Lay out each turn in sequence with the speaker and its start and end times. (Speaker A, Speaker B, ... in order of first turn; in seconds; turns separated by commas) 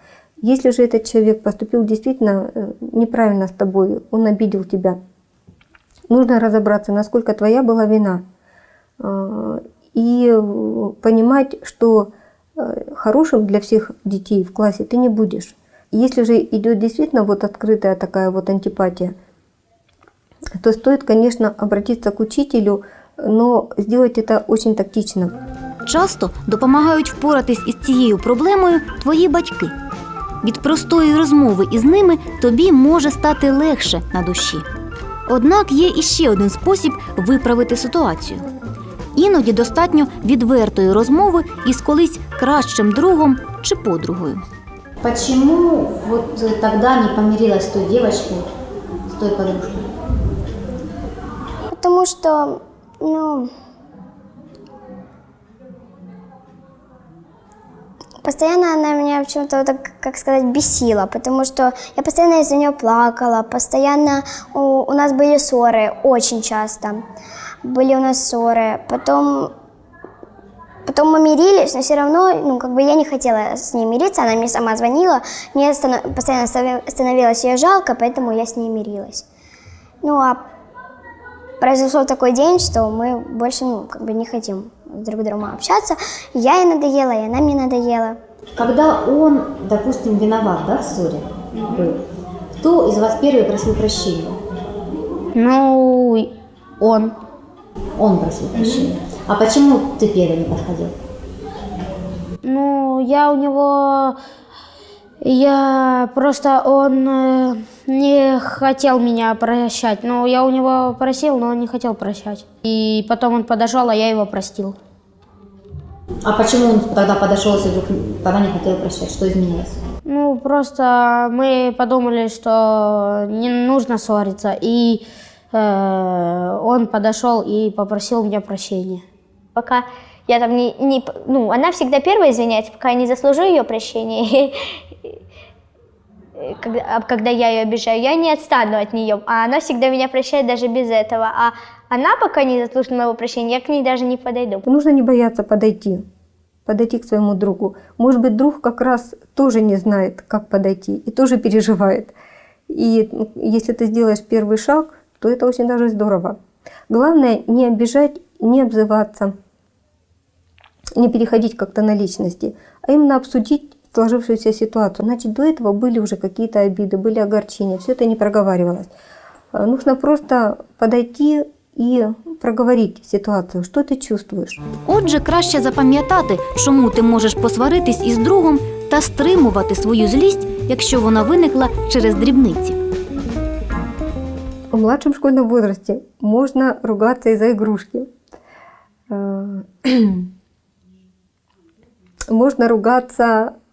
Speaker A: 0.4-5.0, Speaker A: 6.1-8.2, Speaker A: 9.0-19.1, Speaker A: 20.6-25.3, Speaker B: 25.9-29.7, Speaker B: 30.4-34.6, Speaker B: 35.3-38.5, Speaker B: 39.1-44.4, Speaker C: 45.0-48.5, Speaker C: 49.1-49.9, Speaker D: 51.7-53.5, Speaker D: 58.2-67.0, Speaker D: 67.6-69.5, Speaker D: 70.8-79.2, Speaker D: 80.0-80.4, Speaker D: 81.6-88.2, Speaker C: 88.6-91.9, Speaker C: 92.6-94.4, Speaker E: 95.3-96.3, Speaker E: 96.8-97.1, Speaker C: 98.0-100.9, Speaker E: 102.4-104.2, Speaker E: 105.2-114.8, Speaker C: 116.2-119.8, Speaker E: 120.0-129.0, Speaker F: 129.6-134.5, Speaker F: 136.4-143.6, Speaker E: 143.7-144.2, Speaker A: 144.6-146.0, Speaker A: 146.7-152.1, Speaker A: 152.7-156.4, Speaker A: 156.9-159.3, Speaker A: 161.0-168.9, Speaker A: 169.5-174.6, Speaker B: 174.8-182.8, Speaker A: 184.7-188.1, Speaker A: 189.1-190.3, Speaker A: 192.3-193.5